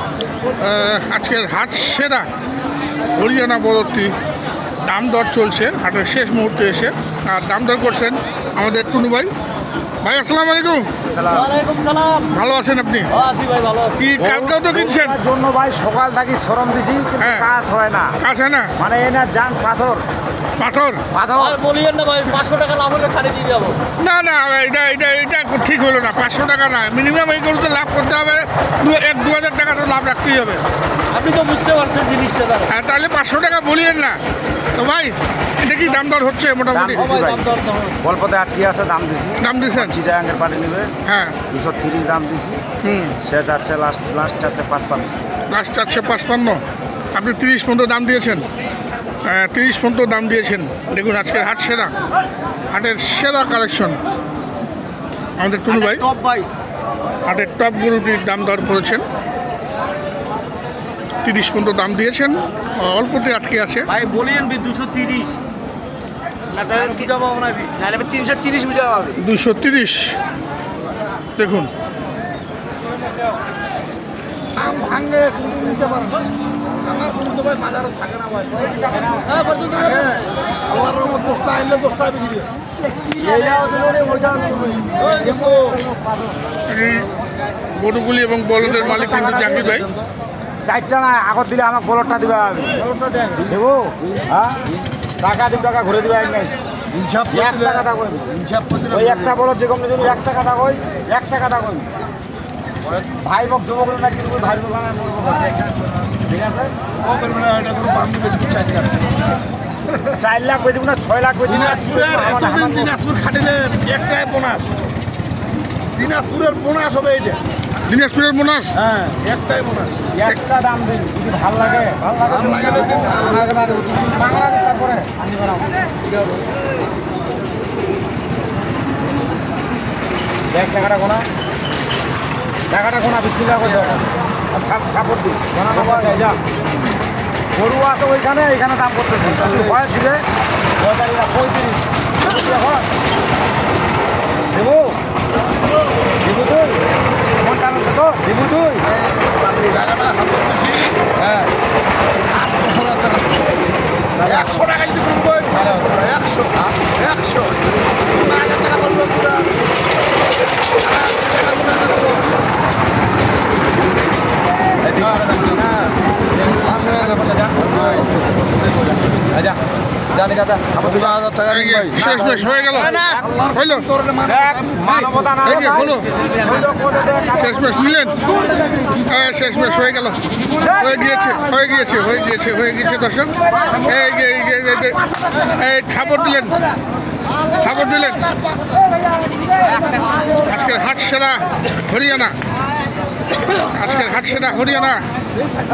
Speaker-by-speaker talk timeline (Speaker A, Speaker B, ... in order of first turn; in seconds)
Speaker A: 0.6-2.3, 3.1-4.1, 4.8-9.3, 10.0-10.9, 12.3-13.1, 14.0-15.2, 17.2-17.5, 18.2-18.7, 20.6-21.0, 24.0-30.6, 32.7-34.2, 34.8-37.1, 39.4-40.0, 41.0-41.4, 42.8-43.1, 45.5-46.6, 47.1-48.5, 49.2-51.9, 52.7-54.0, 55.4-56.0, 57.2-59.0, 61.2-63.9, 69.1-70.2, 71.4-71.7, 86.7-87.1, 87.7-89.9, 117.9-118.8, 171.5-173.9, 175.4-176.1, 177.4-178.2, 179.0-186.6, 187.6-188.3, 190.4-192.3, 193.7-195.1
Speaker B: 11.1-11.5, 14.2-18.2, 18.8-20.0, 21.1-21.6, 36.7-37.5, 38.0-40.9, 41.5-42.6, 43.2-45.1, 78.7-79.7, 83.0-86.1, 88.6-89.8, 90.7-92.9, 93.4-96.5, 97.3-101.9, 103.2-105.7, 106.2-106.7, 110.1-113.0, 120.1-125.7, 130.5-131.3, 132.7-136.4, 137.5-140.2, 140.8-142.9, 144.5-145.0, 146.2-146.8, 147.4-148.8, 151.2-151.5, 154.2-154.6, 170.1-171.2, 172.0-173.5, 174.2-177.7
Speaker C: 11.3-12.3, 13.1-14.0, 21.4-23.8, 31.1-32.7, 37.0-38.0, 55.7-56.5, 63.9-65.4, 66.5-69.1, 172.9-173.2
Speaker D: 74.5-76.3, 76.8-78.7, 79.7-82.5, 85.0-85.8, 89.7-90.1, 92.9-93.4, 96.9-99.3, 107.0-109.1, 111.5-114.8, 115.9-117.4, 118.8-120.0, 122.2-123.9, 126.0-126.4, 139.3-139.9, 149.6-151.0, 152.3-153.5, 154.2-159.5, 160.8-162.2, 166.6-167.6, 170.9-172.4, 173.7-175.0